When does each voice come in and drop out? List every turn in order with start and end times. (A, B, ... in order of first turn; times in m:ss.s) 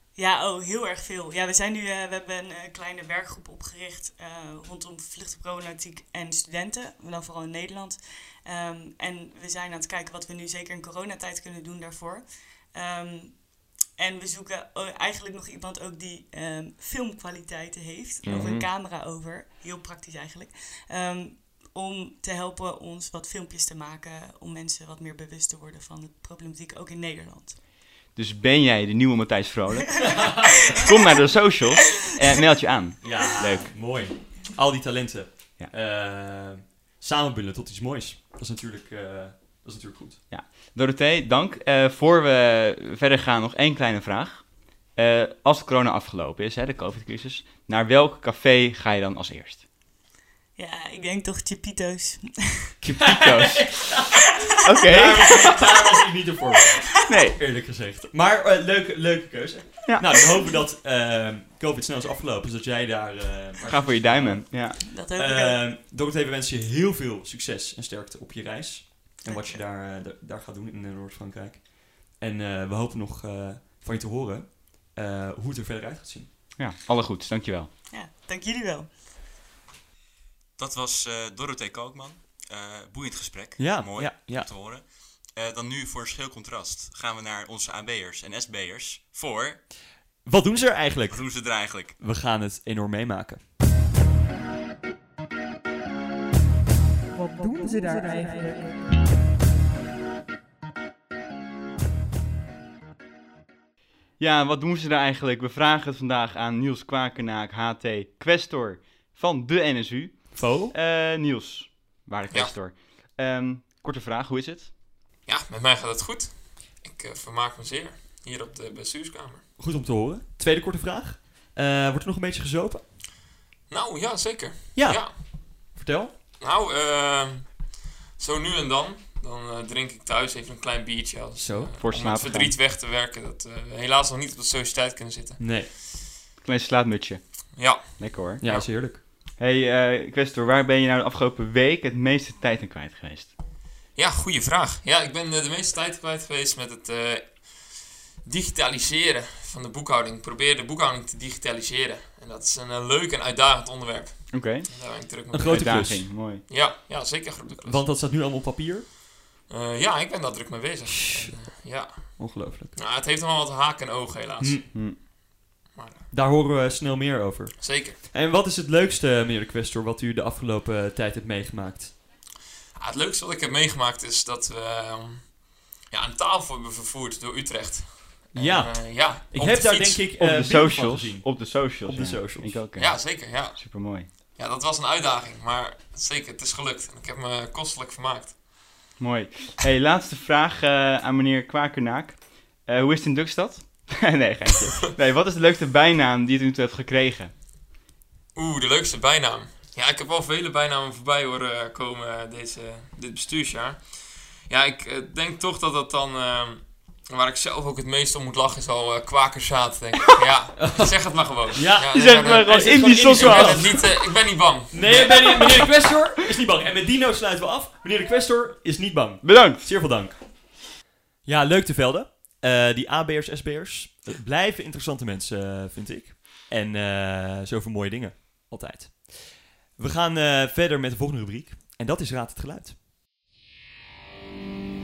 0:00.2-0:27.6 A
0:18.2-0:18.7 B
0:18.3-0:18.6 C
0:28.1-0:33.7 B
0:30.2-0:30.4 C
0:33.0-0:40.2 C
0:40.3-0:49.6 B
0:50.6-0:52.7 A
0:52.8-0:53.9 B
0:53.0-1:16.3 C
0:54.6-0:55.5 B
0:57.1-0:57.4 B
0:59.9-1:00.1 B
1:03.6-1:04.8 B
1:04.9-1:05.6 A
1:09.2-1:09.6 A
1:16.6-1:17.7 B
1:17.9-1:18.9 A
1:20.6-1:29.7 D
1:23.6-1:24.5 C
1:30.2-1:33.4 C
1:31.1-1:32.0 D
1:44.2-1:54.7 B
1:50.4-1:50.7 C
1:55.3-1:59.4 E
1:59.6-2:02.9 C
2:03.7-2:05.2 E
2:04.8-2:06.1 C
2:06.4-2:15.6 E
2:11.4-2:11.9 C
2:11.8-2:12.6 B
2:15.4-2:15.7 C
2:16.4-2:23.3 B
2:17.5-2:18.7 E
2:18.4-2:19.0 C
2:24.0-2:37.9 E
2:34.3-2:34.7 B
2:35.3-2:36.2 C
2:35.3-2:36.4 B
2:37.6-2:38.9 C
2:39.5-2:44.7 E
2:40.9-2:42.8 C
2:44.4-2:44.7 C
2:44.7-2:45.0 B
2:45.7-2:46.1 E
2:46.1-2:52.0 C
2:47.6-2:48.0 E
2:52.8-3:00.1 E
2:58.3-3:02.7 C
3:00.2-3:04.1 B
3:02.8-3:03.6 E
3:04.4-3:08.4 E
3:09.0-3:17.3 B
3:18.4-3:35.7 E
3:30.6-3:40.7 C
3:31.9-3:33.8 B
3:39.2-3:39.6 B
3:41.2-3:52.8 C